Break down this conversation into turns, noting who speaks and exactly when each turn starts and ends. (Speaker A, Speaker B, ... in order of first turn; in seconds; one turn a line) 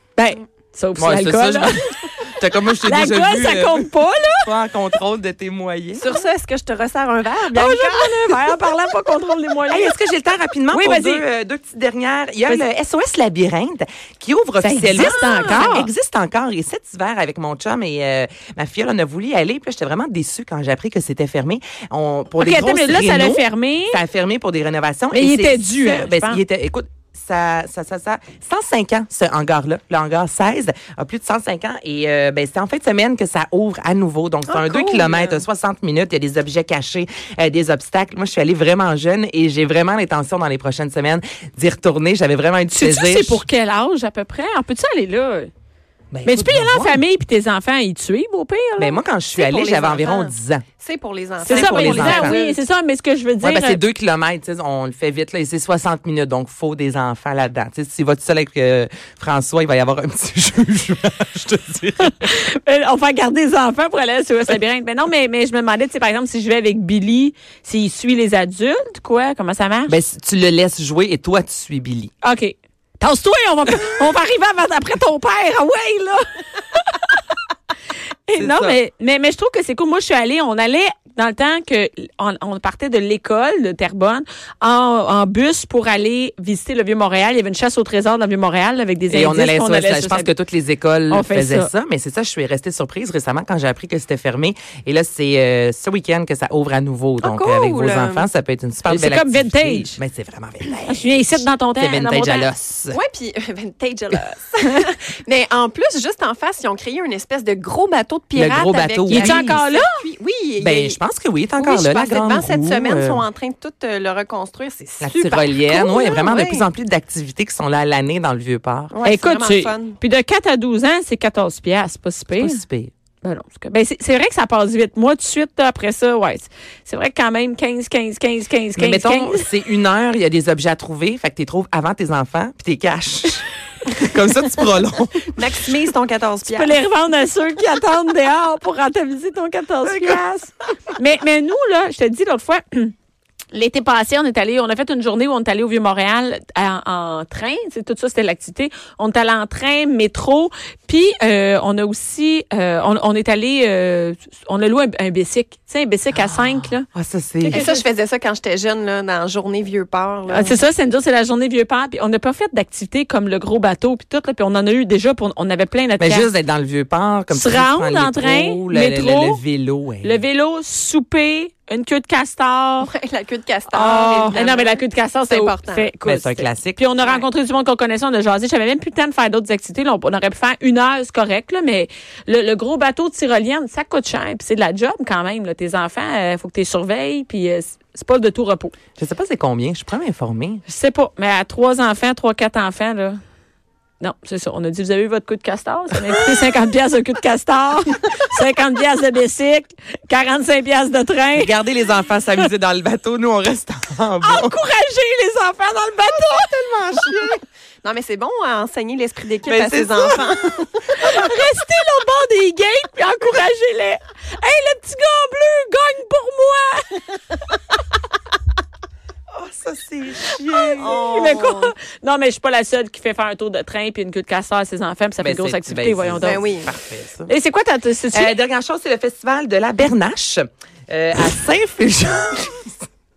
Speaker A: 0.2-2.1
Speaker B: 1.0-3.9
Speaker A: 2.8-4.5
Speaker B: 4.4-6.2
Speaker C: 6.0-8.5
Speaker A: 7.5-9.9
Speaker B: 9.7-43.4
Speaker A: 10.7-11.2
Speaker A: 14.6-15.9
Speaker C: 14.9-15.7
Speaker A: 22.4-24.0
Speaker A: 25.1-26.4
Speaker C: 34.5-35.4
Speaker A: 42.7-45.5
Speaker B: 46.1-47.0
Speaker A: 46.2-49.0
Speaker B: 48.8-50.7
Speaker C: 49.3-52.6
Speaker A: 51.4-53.8
Speaker B: 51.5-52.4
Speaker B: 53.4-62.3
Speaker A: 62.0-70.0
Speaker B: 69.9-72.1
Speaker A: 72.2-77.2
Speaker A: 78.3-90.3
Speaker B: 78.3-78.8
Speaker B: 89.1-103.0
Speaker A: 91.1-91.7
Speaker C: 97.2-98.3
Speaker A: 98.9-100.0
Speaker A: 100.9-102.5
Speaker C: 102.9-111.0
Speaker B: 108.4-109.7
Speaker A: 109.1-109.9
Speaker B: 110.6-113.3
Speaker C: 111.6-116.7
Speaker B: 115.0-119.1
Speaker C: 118.9-120.0
Speaker A: 119.0-122.6
Speaker B: 122.4-122.9
Speaker A: 123.2-129.5
Speaker B: 128.8-135.7
Speaker C: 135.3-136.8
Speaker A: 136.5-140.3
Speaker B: 139.8-140.5
Speaker A: 141.0-142.9
Speaker A: 143.5-156.9
Speaker B: 156.9-157.7
Speaker A: 157.4-157.8
Speaker C: 157.5-160.6
Speaker A: 160.3-166.3
Speaker B: 166.0-170.2
Speaker A: 167.3-169.4
Speaker A: 170.0-172.9
Speaker C: 172.8-175.9
Speaker A: 173.7-188.8
Speaker B: 173.8-174.4
Speaker B: 176.0-176.9
Speaker C: 177.0-177.3
Speaker B: 189.0-190.6
Speaker A: 190.7-193.2
Speaker A: 194.0-201.5
Speaker B: 201.4-204.6
Speaker A: 204.2-206.5
Speaker B: 206.4-207.4
Speaker C: 207.8-211.0
Speaker B: 209.4-210.3
Speaker A: 211.0-217.0
Speaker B: 219.3-221.1
Speaker A: 220.5-226.6
Speaker C: 220.8-221.7
Speaker B: 225.2-227.3
Speaker C: 226.2-226.7
Speaker A: 227.3-228.4
Speaker B: 228.1-232.8